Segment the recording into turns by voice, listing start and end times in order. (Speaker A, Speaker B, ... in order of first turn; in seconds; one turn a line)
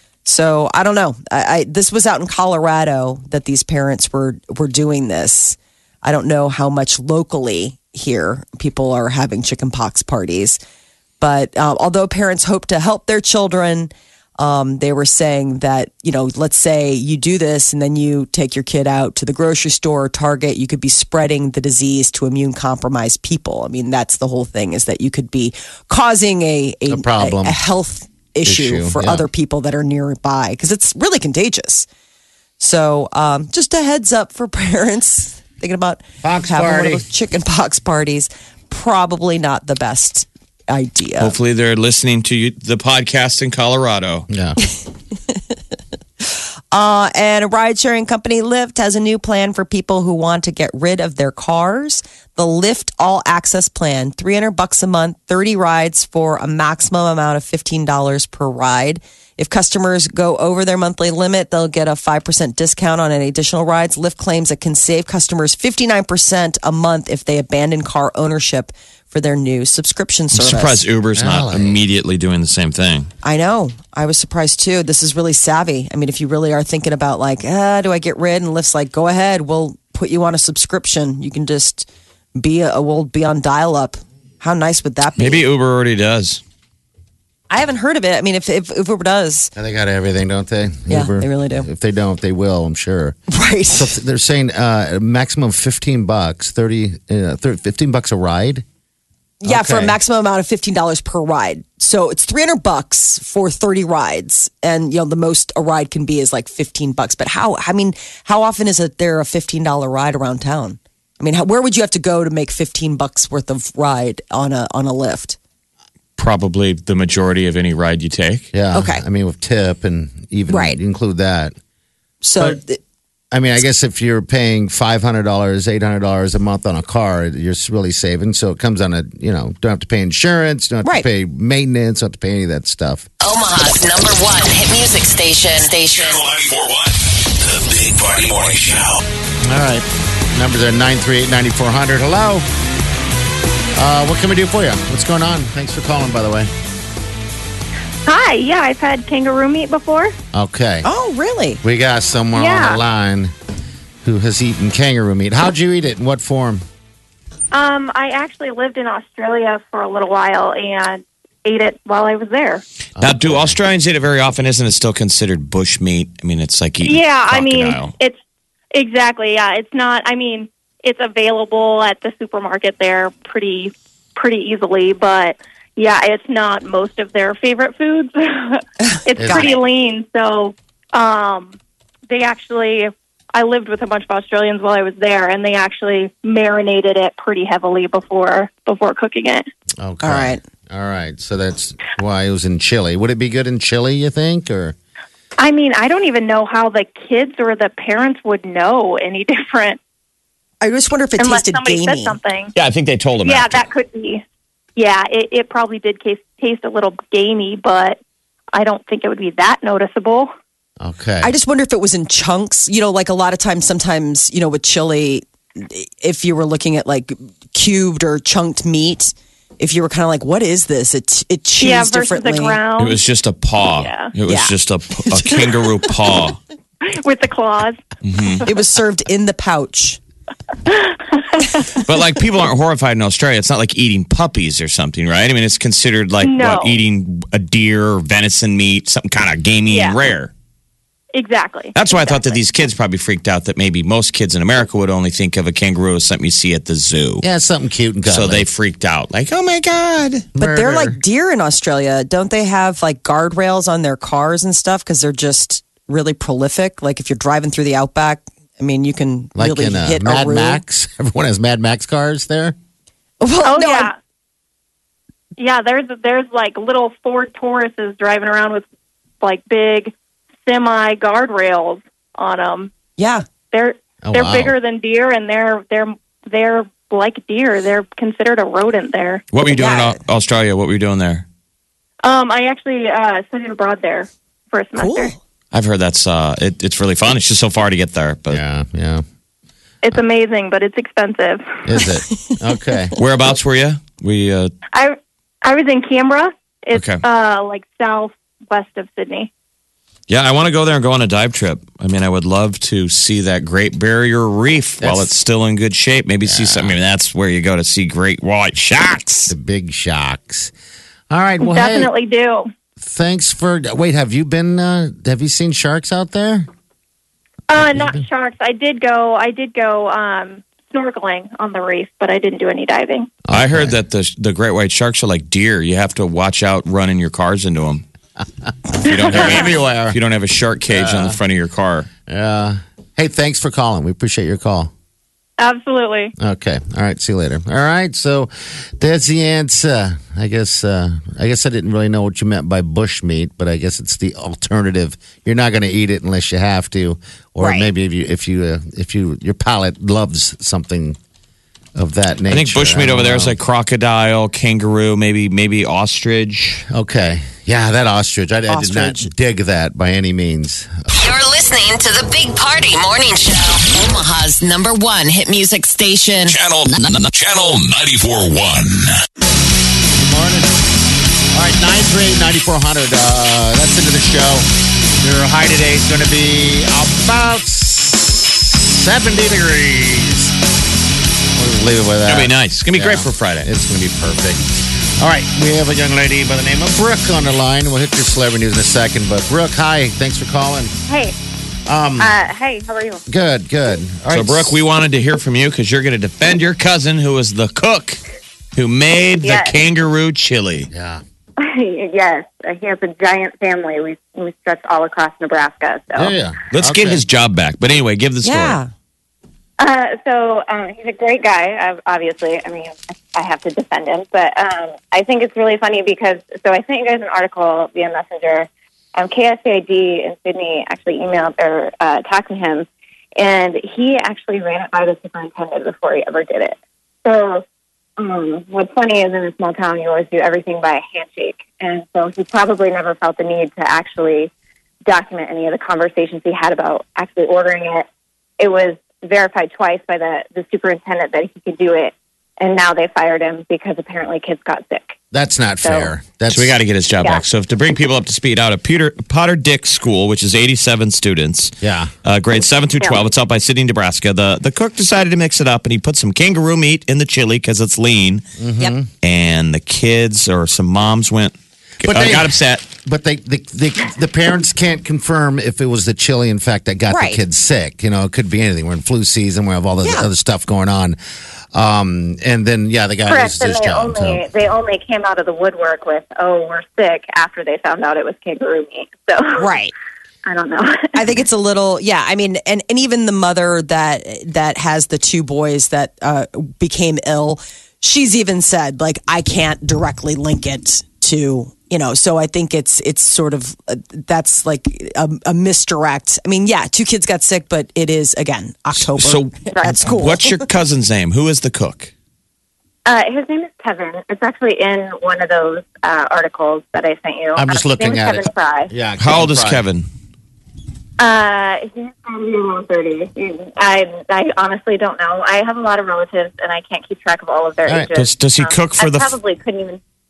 Speaker A: 0.2-10.6
Speaker A: 11.2-31.9
Speaker B: 26.9-27.6
Speaker B: 28.4-29.3
Speaker A: 32.6-41.3
Speaker B: 36.2-37.1
Speaker C: 41.2-44.3
Speaker B: 44.3-44.6
Speaker A: 46.7-70.8
Speaker C: 70.3-73.1
Speaker B: 71.2-71.8
Speaker A: 73.2-85.4
Speaker C: 85.2-86.4
Speaker A: 87.5-89.5
Speaker B: 89.5-93.2
Speaker A: 90.9-91.7
Speaker A: 93.3-93.9
Speaker B: 93.7-98.7
Speaker A: 99.4-115.4
Speaker B: 99.5-100.0
Speaker C: 116.2-118.5
Speaker B: 118.5-121.5
Speaker A: 118.7-119.0
Speaker A: 120.5-120.8
Speaker A: 122.2-122.8
Speaker B: 123.3-133.1
Speaker D: 133.2-136.2
Speaker E: 135.9-139.0
Speaker B: 139.5-142.5
Speaker B: 143.8-146.5
Speaker F: 148.1-150.2
Speaker B: 150.3-150.9
Speaker A: 150.8-151.6
Speaker B: 151.6-153.3
Speaker F: 152.3-152.8
Speaker B: 154.0-156.6
Speaker F: 157.5-162.6
Speaker B: 163.0-163.6
Speaker C: 163.0-167.9
Speaker F: 166.8-168.2
Speaker F: 168.7-181.6
Speaker A: 178.9-179.4
Speaker B: 179.2-179.6
Speaker F: 182.1-189.5
Speaker B: 189.8-194.8
Speaker A: 190.0-190.4
Speaker F: 195.4-199.8
Speaker A: 200.6-202.2
Speaker F: 201.2-202.5
Speaker C: 202.6-203.7
Speaker F: 203.2-204.2
Speaker F: 204.8-208.0
Speaker F: 208.5-210.3
Speaker B: 210.8-211.3
Speaker A: 211.2-222.6
Speaker F: 221.6-223.0
Speaker C: 222.8-226.4
Speaker F: 223.7-224.1
Speaker A: 224.3-224.5
Speaker A: 225.1-225.4
Speaker F: 226.8-228.5
Speaker C: 228.0-228.4
Speaker A: 228.4-230.0
Speaker F: 230.7-231.8
Speaker C: 231.8-240.3
Speaker F: 236.2-236.8
Speaker F: 239.7-240.0
Speaker F: 241.1-242.4
Speaker C: 241.7-247.3
Speaker B: 247.2-248.5
Speaker C: 248.1-250.3
Speaker B: 250.3-251.0
Speaker A: 250.4-260.6
Speaker B: 259.4-262.6
Speaker A: 263.2-263.9
Speaker F: 263.4-263.9
Speaker F: 265.4-268.6
Speaker F: 269.2-269.9
Speaker F: 270.5-272.7
Speaker A: 273.0-273.2
Speaker F: 273.5-279.2
Speaker B: 274.0-274.5
Speaker C: 279.3-281.2
Speaker A: 279.5-280.0
Speaker F: 282.0-285.1
Speaker A: 284.8-285.1
Speaker C: 285.5-288.4
Speaker B: 288.3-289.0
Speaker F: 289.8-291.9
Speaker B: 291.6-292.9
Speaker C: 293.0-294.5
Speaker F: 294.7-299.3
Speaker C: 296.7-297.0
Speaker C: 300.1-309.3
Speaker B: 304.8-305.1
Speaker B: 306.2-306.8
Speaker B: 309.3-310.5
Speaker B: 311.1-311.9
Speaker F: 311.4-312.5
Speaker B: 312.8-316.5
Speaker F: 317.5-323.1
Speaker B: 317.6-318.0
Speaker B: 323.3-323.8
Speaker C: 323.3-327.8
Speaker C: 328.8-331.9
Speaker B: 328.9-330.0
Speaker B: 330.7-331.2
Speaker B: 332.1-334.7
Speaker F: 335.4-336.1
Speaker B: 336.2-351.0
Speaker A: 347.4-347.7
Speaker B: 351.8-353.4
Speaker C: 352.3-356.6
Speaker B: 356.7-360.9
Speaker A: 358.5-359.1
Speaker D: 360.9-366.4
Speaker E: 366.2-369.0
Speaker B: 369.9-370.6
Speaker B: 371.3-380.4
Speaker B: 381.4-390.7
Speaker C: 382.1-383.5
Speaker G: 390.9-391.2
Speaker B: 391.7-392.2
Speaker G: 392.0-393.0
Speaker B: 393.1-394.6
Speaker C: 394.1-398.0
Speaker C: 398.6-400.7
Speaker G: 399.2-399.6
Speaker B: 400.7-401.0
Speaker G: 401.4-406.1
Speaker B: 405.9-407.0
Speaker C: 406.5-408.6
Speaker A: 408.2-408.7
Speaker G: 409.6-427.4
Speaker G: 428.0-434.3
Speaker G: 434.9-437.9
Speaker G: 438.4-445.0
Speaker B: 445.1-446.6
Speaker G: 445.6-445.9
Speaker C: 446.3-458.2
Speaker B: 451.6-451.9
Speaker B: 458.4-458.9
Speaker C: 459.0-462.7
Speaker B: 461.8-471.0
Speaker A: 466.9-467.2
Speaker A: 469.8-470.1
Speaker B: 471.5-474.2
Speaker G: 473.1-479.5
Speaker A: 479.4-479.7
Speaker G: 480.2-481.0
Speaker A: 480.9-500.4
Speaker C: 498.8-501.9
Speaker G: 502.9-508.7
Speaker B: 507.4-509.7
Speaker C: 509.0-509.9
Speaker G: 511.0-519.8
Speaker B: 517.6-517.9
Speaker C: 518.0-519.1